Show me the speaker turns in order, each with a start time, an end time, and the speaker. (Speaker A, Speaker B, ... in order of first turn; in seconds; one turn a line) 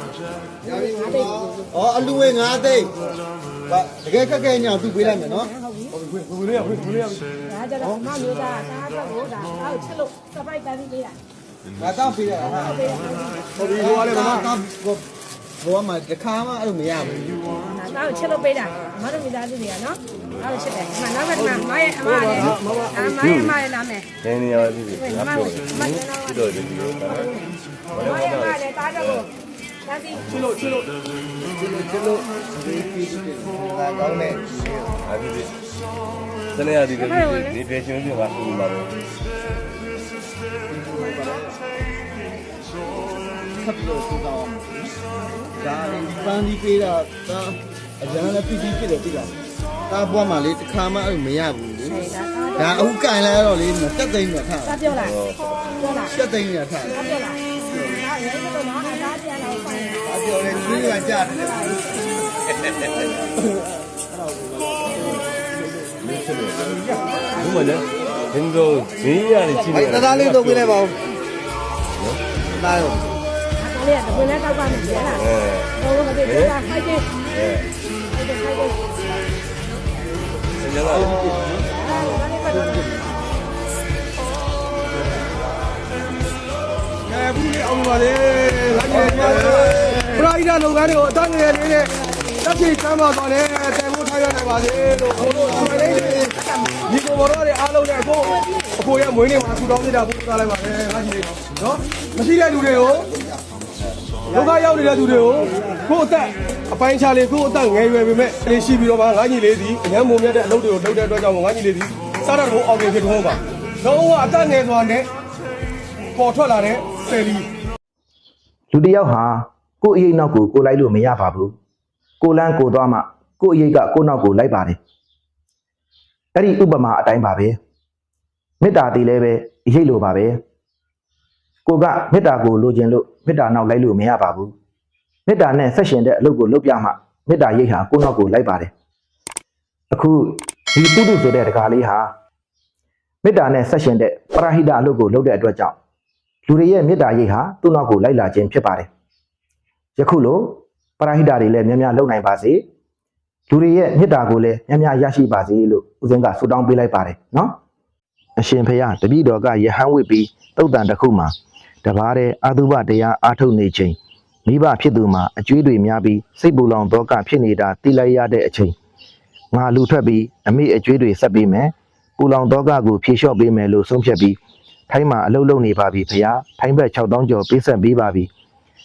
Speaker A: 0.6-3.1
Speaker B: 0.7-1.7
Speaker A: 3.7-5.5
Speaker B: 5.1-6.0
Speaker C: 6.1-7.3
Speaker B: 7.4-11.2
Speaker A: 7.8-8.1
Speaker A: 11.8-12.9
Speaker B: 12.6-13.7
Speaker C: 13.6-14.5
Speaker A: 13.7-15.1
Speaker A: 15.6-17.6
Speaker B: 17.7-24.1
Speaker C: 22.6-23.0
Speaker D: 23.1-23.6
Speaker D: 24.2-29.2
Speaker B: 25.0-26.3
Speaker B: 28.0-29.2
Speaker B: 29.9-30.4
Speaker A: 31.5-35.0
Speaker D: 35.0-35.5
Speaker D: 36.5-39.0
Speaker B: 37.1-37.5
Speaker A: 40.7-41.6
Speaker A: 43.4-44.9
Speaker A: 45.5-49.4
Speaker A: 49.9-55.0
Speaker B: 51.9-52.9
Speaker B: 54.7-55.1
Speaker D: 55.1-55.4
Speaker B: 55.8-56.1
Speaker A: 56.0-57.1
Speaker B: 57.0-61.9
Speaker A: 60.0-61.8
Speaker A: 64.2-65.2
Speaker D: 66.0-70.8
Speaker A: 69.7-71.1
Speaker A: 72.5-73.1
Speaker B: 73.6-75.3
Speaker D: 75.2-76.5
Speaker B: 75.8-77.1
Speaker D: 77.3-77.7
Speaker B: 78.1-78.9
Speaker D: 80.6-81.3
Speaker A: 80.8-81.8
Speaker B: 81.7-83.1
Speaker A: 82.5-82.8
Speaker C: 87.0-103.1
Speaker A: 89.2-90.0
Speaker A: 95.7-96.3
Speaker C: 104.3-115.1
Speaker C: 116.1-117.5
Speaker E: 118.7-121.5
Speaker E: 122.2-124.8
Speaker E: 126.3-127.5
Speaker E: 128.6-130.4
Speaker E: 131.7-134.5
Speaker E: 135.3-138.7
Speaker E: 139.9-142.1
Speaker E: 143.2-145.8
Speaker E: 146.5-148.9
Speaker E: 150.0-152.6
Speaker E: 153.5-157.6
Speaker E: 158.4-168.7
Speaker E: 169.5-174.4
Speaker E: 174.9-178.3